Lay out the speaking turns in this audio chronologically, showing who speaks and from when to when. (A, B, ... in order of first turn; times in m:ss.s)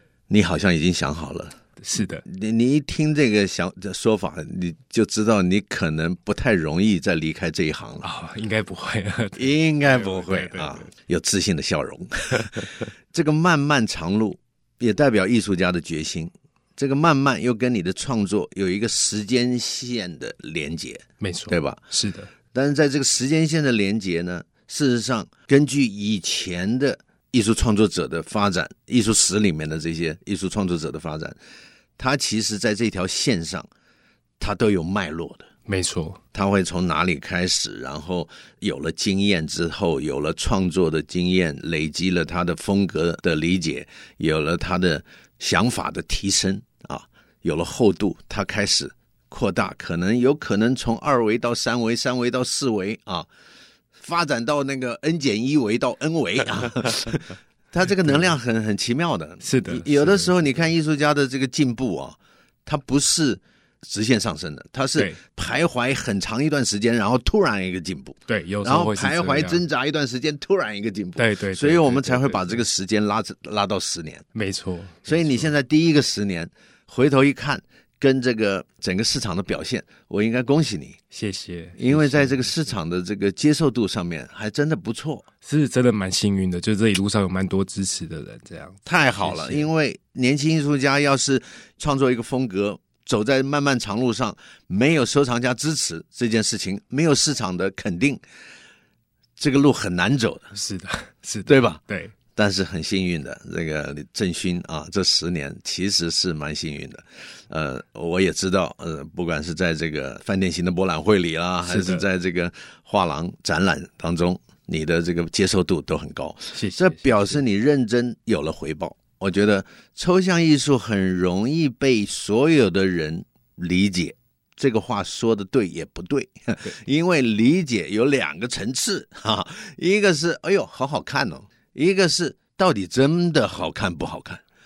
0:00.3-0:01.5 A
0:01.8-0:02.2 B
0:02.2-0:08.1 A
0:08.0-0:10.9 B
0:09.4-0:21.8 A
0:21.2-0:22.3 B
0:22.5-0:31.4 A
0:32.0-0:33.7 A
0:34.4-0:35.4 A
0:35.6-0:36.2 B
0:36.3-0:53.3 A
0:54.0-1:14.3 A
0:59.4-1:00.3 B
1:08.3-1:09.6 B
1:11.2-1:12.6 B
1:14.3-1:15.5 B
1:15.0-1:21.0 A
1:21.1-1:22.6 B
1:21.8-1:25.2 A
1:25.4-1:29.7 B
1:28.8-1:38.2 A
1:39.4-1:40.5 A
1:40.5-1:42.1 B
1:41.4-1:41.8 A
1:42.4-2:14.4 A
1:51.6-1:52.1 B
1:56.5-1:57.4 B